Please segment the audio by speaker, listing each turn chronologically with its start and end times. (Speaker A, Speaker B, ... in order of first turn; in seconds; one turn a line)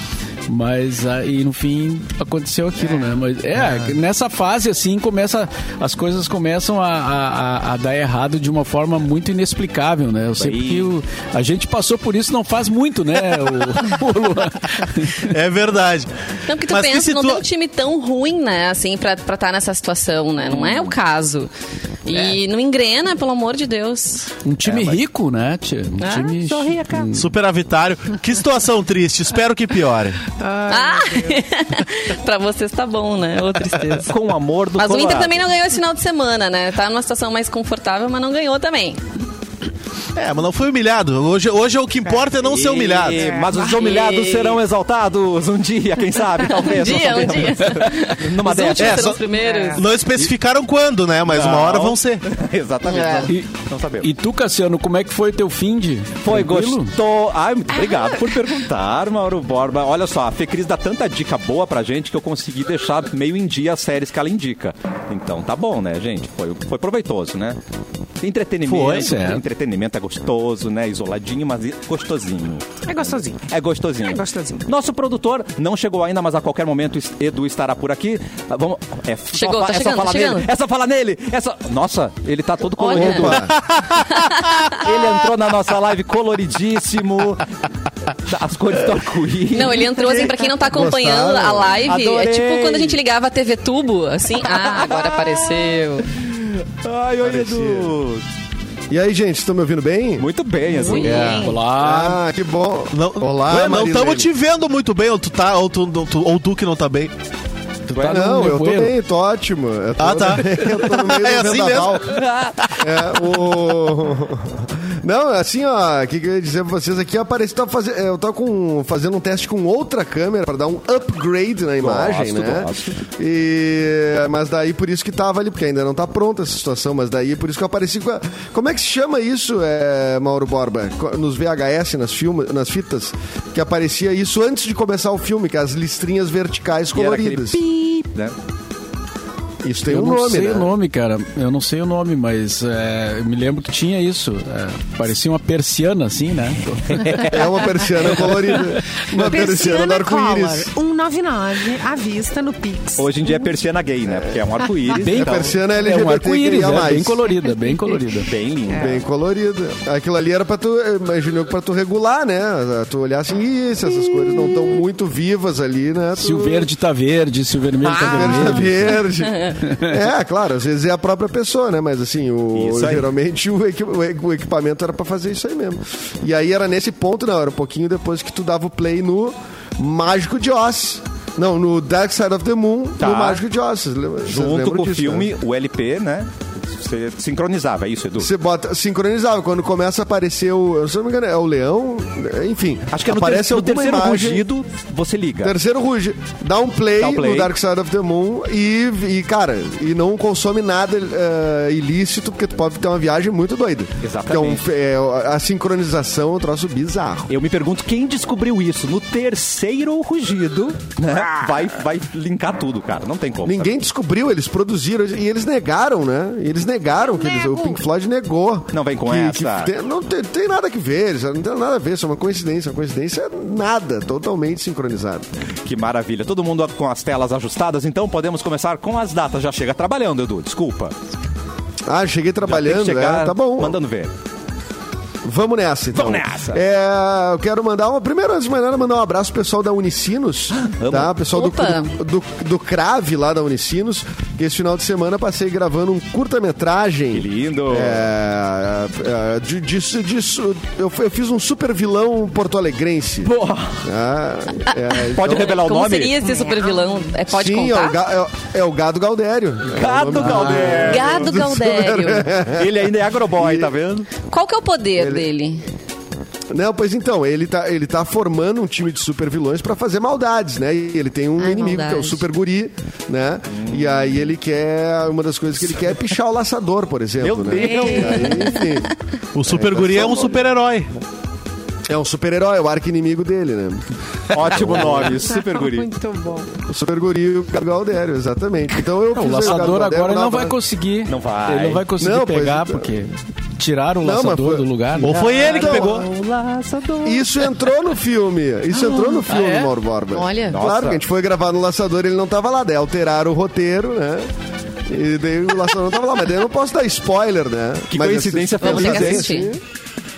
Speaker A: 0.5-15.3
Speaker B: 10.4-10.9
Speaker C: 15.2-16.1
Speaker D: 16.5-21.5
Speaker C: 16.7-17.4
Speaker B: 20.4-21.0
Speaker D: 22.1-24.3
Speaker A: 24.4-27.3
Speaker B: 24.6-25.0
Speaker D: 26.0-26.4
Speaker E: 26.4-27.1
Speaker C: 27.1-30.2
Speaker E: 30.4-31.4
Speaker D: 30.7-34.1
Speaker B: 34.1-35.4
Speaker D: 34.8-39.0
Speaker C: 40.2-43.3
Speaker E: 42.0-42.3
Speaker B: 42.4-49.1
Speaker E: 43.1-43.8
Speaker D: 43.5-44.6
Speaker D: 46.5-49.9
Speaker C: 48.8-52.2
Speaker E: 49.3-49.9
Speaker B: 51.3-54.1
Speaker D: 52.8-53.3
Speaker A: 54.0-56.9
Speaker B: 56.2-67.6
Speaker B: 68.2-83.5
Speaker C: 68.7-69.1
Speaker A: 68.8-69.4
Speaker E: 72.9-73.4
Speaker E: 74.0-74.7
Speaker D: 79.3-80.5
Speaker D: 82.8-83.4
Speaker F: 82.9-83.5
Speaker C: 83.4-84.1
Speaker D: 84.1-84.9
Speaker B: 84.8-87.6
Speaker B: 88.2-90.5
Speaker D: 89.5-96.1
Speaker F: 90.7-91.8
Speaker B: 91.8-93.0
Speaker B: 94.3-98.2
Speaker F: 97.2-97.9
Speaker F: 98.9-100.3
Speaker B: 100.2-101.5
Speaker D: 100.7-101.6
Speaker A: 101.0-102.2
Speaker F: 101.8-104.3
Speaker C: 102.9-107.1
Speaker A: 107.9-109.0
Speaker B: 108.0-108.2
Speaker F: 108.0-112.2
Speaker C: 110.0-112.8
Speaker B: 112.1-112.6
Speaker F: 112.8-137.6
Speaker B: 121.8-123.0
Speaker B: 136.9-138.3
Speaker F: 139.6-140.7
Speaker A: 139.8-147.3
Speaker B: 146.9-148.4
Speaker F: 147.3-150.7
Speaker E: 149.1-153.5
Speaker B: 153.0-155.6
Speaker F: 154.1-157.2
Speaker A: 155.7-158.3
Speaker E: 157.4-158.0
Speaker B: 158.2-159.0
Speaker E: 158.7-159.0
Speaker F: 158.7-166.7
Speaker A: 166.2-169.0
Speaker F: 167.8-185.3
Speaker A: 169.6-170.0
Speaker B: 172.6-173.1
Speaker B: 183.0-183.4
Speaker B: 184.2-188.3
Speaker F: 188.2-194.5
Speaker B: 192.9-195.5
Speaker F: 195.4-207.3
Speaker B: 197.0-197.5
Speaker B: 204.0-204.6
Speaker B: 207.3-213.8
Speaker F: 213.4-225.3
Speaker D: 217.4-217.8
Speaker B: 218.7-219.7
Speaker B: 225.6-230.9
Speaker F: 231.8-233.8
Speaker B: 232.5-234.1
Speaker F: 235.2-255.6
Speaker B: 235.9-236.6
Speaker B: 240.6-241.1
Speaker D: 241.3-241.9
Speaker B: 247.1-248.1
Speaker B: 253.2-253.8
Speaker B: 255.1-256.1
Speaker D: 255.2-258.0
Speaker E: 256.2-257.1
Speaker F: 257.3-262.8
Speaker B: 259.7-261.5
Speaker A: 260.2-260.7
Speaker D: 260.8-262.3
Speaker B: 262.5-264.1
Speaker F: 263.3-263.8
Speaker D: 264.3-265.6
Speaker F: 265.0-265.3
Speaker F: 266.5-278.9
Speaker D: 271.4-272.2
Speaker B: 273.5-274.2
Speaker B: 277.2-278.6
Speaker E: 277.5-278.6
Speaker C: 279.4-280.9
Speaker F: 279.4-280.5
Speaker F: 281.9-285.3
Speaker B: 284.3-285.9
Speaker E: 285.0-286.6
Speaker F: 286.6-290.6
Speaker A: 289.1-295.2
Speaker B: 291.1-291.9
Speaker F: 292.0-293.1
Speaker F: 294.0-296.1
Speaker C: 295.0-296.1
Speaker B: 295.1-297.2
Speaker F: 297.0-304.3
Speaker A: 299.3-299.7
Speaker D: 300.1-300.6
Speaker B: 300.5-301.0
Speaker F: 304.9-309.6
Speaker B: 307.9-309.4
Speaker D: 308.6-309.5